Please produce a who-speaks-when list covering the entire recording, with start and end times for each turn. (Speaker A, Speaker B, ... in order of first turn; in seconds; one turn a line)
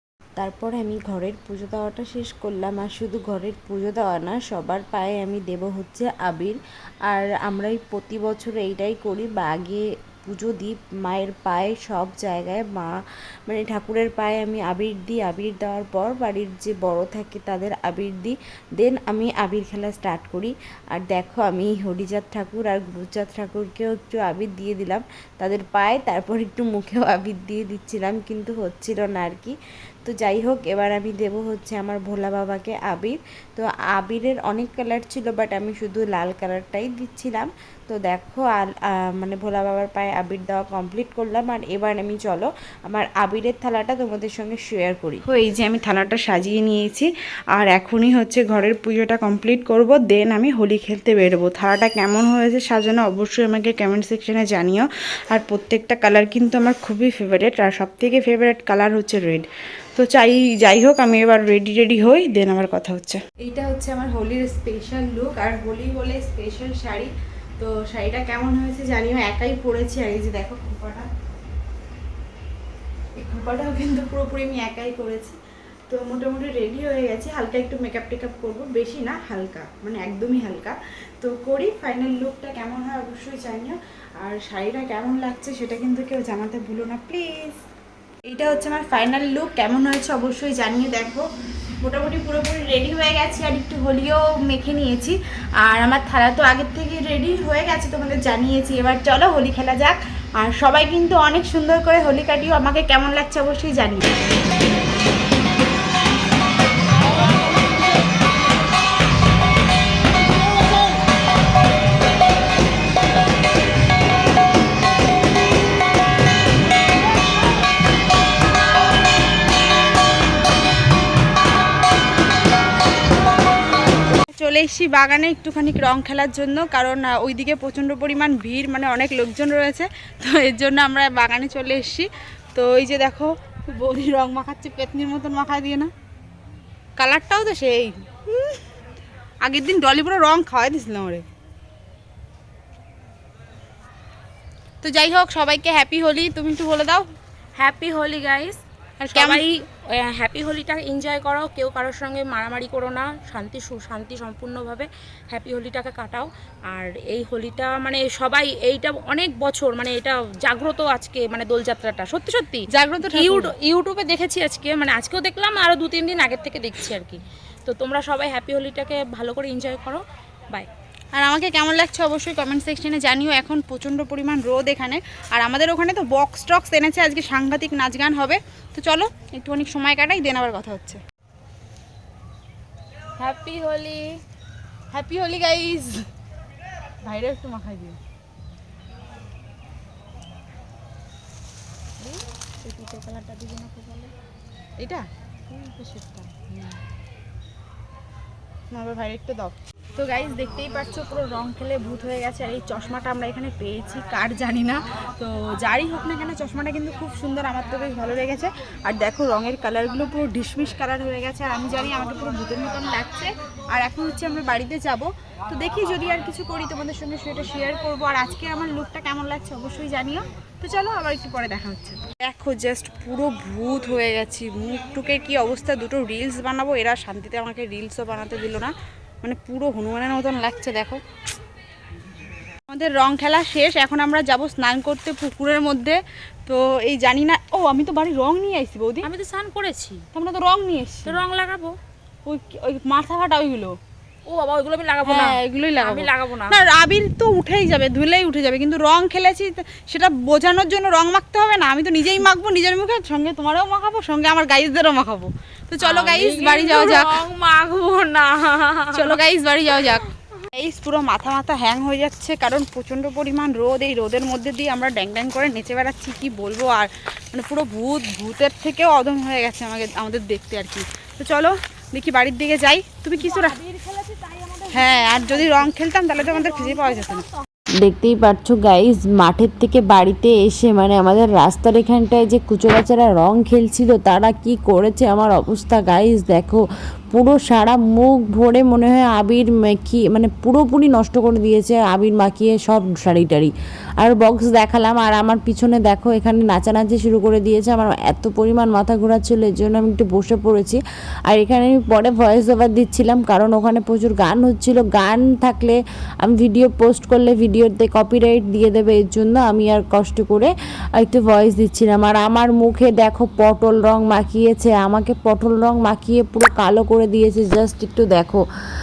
Speaker A: 0.4-6.6
Speaker A: 7.1-12.9
Speaker A: 13.5-45.2
Speaker B: 45.2-71.1
Speaker B: 73.2-75.4
Speaker B: 75.9-87.6
Speaker B: 88.3-91.3
Speaker B: 91.8-104.1
Speaker B: 124.4-135.9
Speaker B: 137.0-138.5
Speaker B: 139.4-141.2
Speaker B: 144.8-147.1
Speaker C: 147.6-170.7
Speaker B: 149.2-149.4
Speaker B: 162.7-163.5
Speaker B: 171.2-181.0
Speaker C: 183.2-184.2
Speaker B: 184.9-186.0
Speaker B: 187.0-188.0
Speaker B: 192.0-194.1
Speaker B: 194.8-196.7
Speaker B: 198.7-228.7
Speaker B: 229.2-231.0
Speaker B: 232.7-239.1
Speaker C: 239.0-240.0
Speaker B: 240.1-241.2
Speaker C: 241.1-241.8
Speaker B: 242.2-243.8
Speaker C: 244.3-246.6
Speaker B: 245.0-257.2
Speaker C: 255.8-259.2
Speaker B: 258.9-273.6
Speaker C: 273.2-277.2
Speaker B: 274.7-277.2
Speaker A: 277.8-318.4